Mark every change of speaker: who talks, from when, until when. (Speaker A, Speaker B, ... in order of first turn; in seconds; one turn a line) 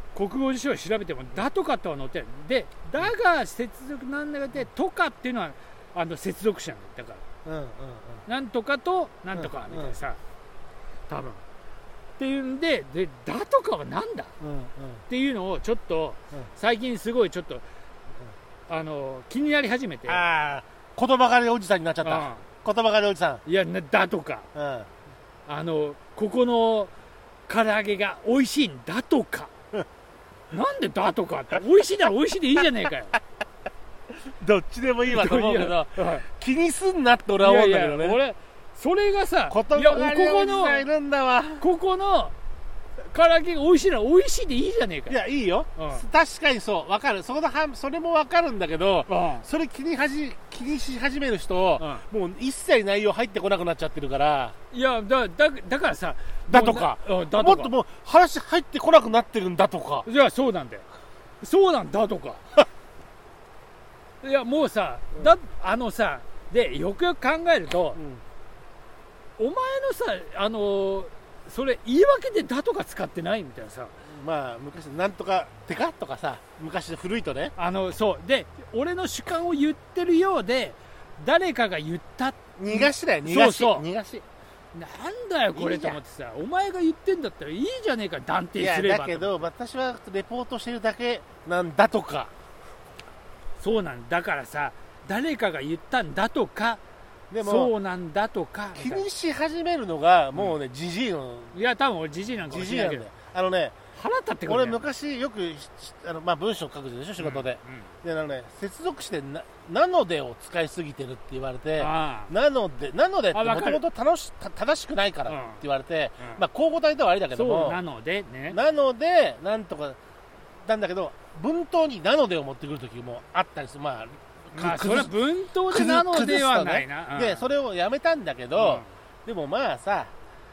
Speaker A: 0.1-7.2
Speaker B: 7.4-8.2
Speaker A: 8.3-10.2
Speaker B: 9.3-10.0
Speaker A: 11.1-11.4
Speaker A: 12.2-14.3
Speaker B: 14.4-15.0
Speaker A: 15.1-17.6
Speaker A: 18.7-20.2
Speaker B: 20.1-23.4
Speaker A: 22.0-22.4
Speaker A: 23.4-24.5
Speaker B: 24.5-24.9
Speaker A: 25.5-26.9
Speaker A: 27.5-29.5
Speaker A: 30.5-33.2
Speaker B: 34.4-38.2
Speaker A: 35.1-36.2
Speaker A: 37.4-40.8
Speaker B: 39.5-41.6
Speaker A: 41.6-42.3
Speaker A: 43.0-45.2
Speaker B: 45.1-54.5
Speaker A: 45.8-46.0
Speaker A: 49.1-49.5
Speaker A: 51.8-52.0
Speaker A: 54.7-57.7
Speaker B: 56.5-60.0
Speaker A: 60.0-60.9
Speaker A: 61.4-62.4
Speaker A: 64.2-68.0
Speaker B: 67.9-68.2
Speaker A: 69.4-73.9
Speaker B: 74.1-77.5
Speaker A: 77.6-83.9
Speaker B: 82.6-84.2
Speaker A: 84.7-89.5
Speaker B: 85.5-86.0
Speaker B: 88.5-92.3
Speaker A: 93.6-96.8
Speaker B: 97.3-97.7
Speaker A: 97.4-99.1
Speaker B: 98.7-101.6
Speaker A: 101.5-103.1
Speaker B: 102.5-103.8
Speaker A: 104.0-104.8
Speaker B: 104.5-117.8
Speaker A: 107.2-107.9
Speaker A: 111.8-112.3
Speaker A: 113.3-113.8
Speaker A: 115.3-115.6
Speaker A: 117.3-118.6
Speaker B: 118.5-120.0
Speaker B: 120.6-125.1
Speaker A: 124.5-127.5
Speaker B: 125.7-130.1
Speaker A: 128.5-128.9